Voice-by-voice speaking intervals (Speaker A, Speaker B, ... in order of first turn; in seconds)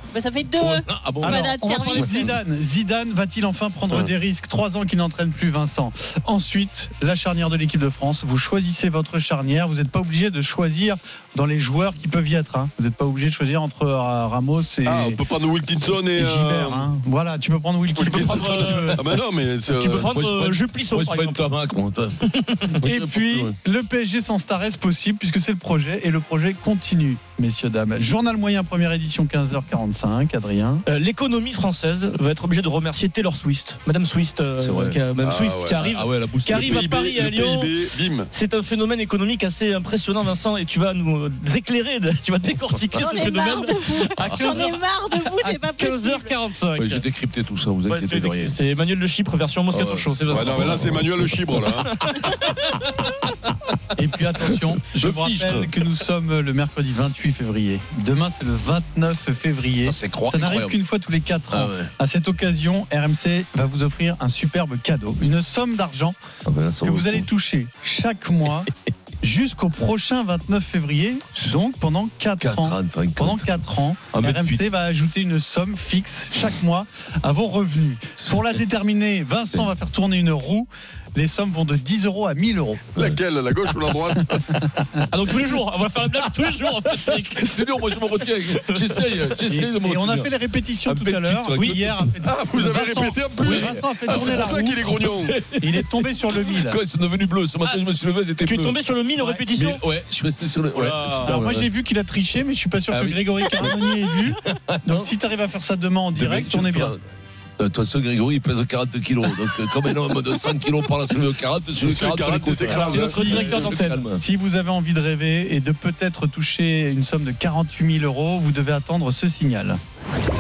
Speaker A: 0.1-2.1, 42.9-46.4
Speaker B: 0.6-2.4, 20.0-23.6, 34.6-35.0, 35.8-37.1, 44.2-44.6, 46.8-48.5, 49.7-51.6, 54.9-55.7, 59.8-60.8, 61.5-61.9, 66.5-67.3, 72.4-73.5, 74.1-74.7, 86.8-90.3, 90.9-92.1, 93.6-98.8, 99.5-101.7, 102.9-105.1, 106.1-107.0, 107.6-114.2
Speaker C: 1.2-15.2, 16.1-19.0, 22.8-30.8, 54.0-66.2, 66.8-68.7, 69.2-82.9, 84.6-85.1, 89.5-94.8, 95.6-96.8, 99.2-99.5, 101.2-106.9, 112.7-113.6, 114.2-119.8
Speaker D: 14.8-16.9, 18.0-20.1, 35.2-35.9, 36.6-38.3, 50.3-51.9, 83.0-84.4, 92.2-95.4, 111.8-113.6
Speaker E: 18.1-18.9, 19.8-21.4, 22.3-22.7, 30.9-37.7, 38.3-47.0, 47.9-51.0, 51.9-52.1, 85.1-87.5, 88.6-89.0, 91.5-91.8, 98.5-99.8, 100.8-101.4, 112.8-114.1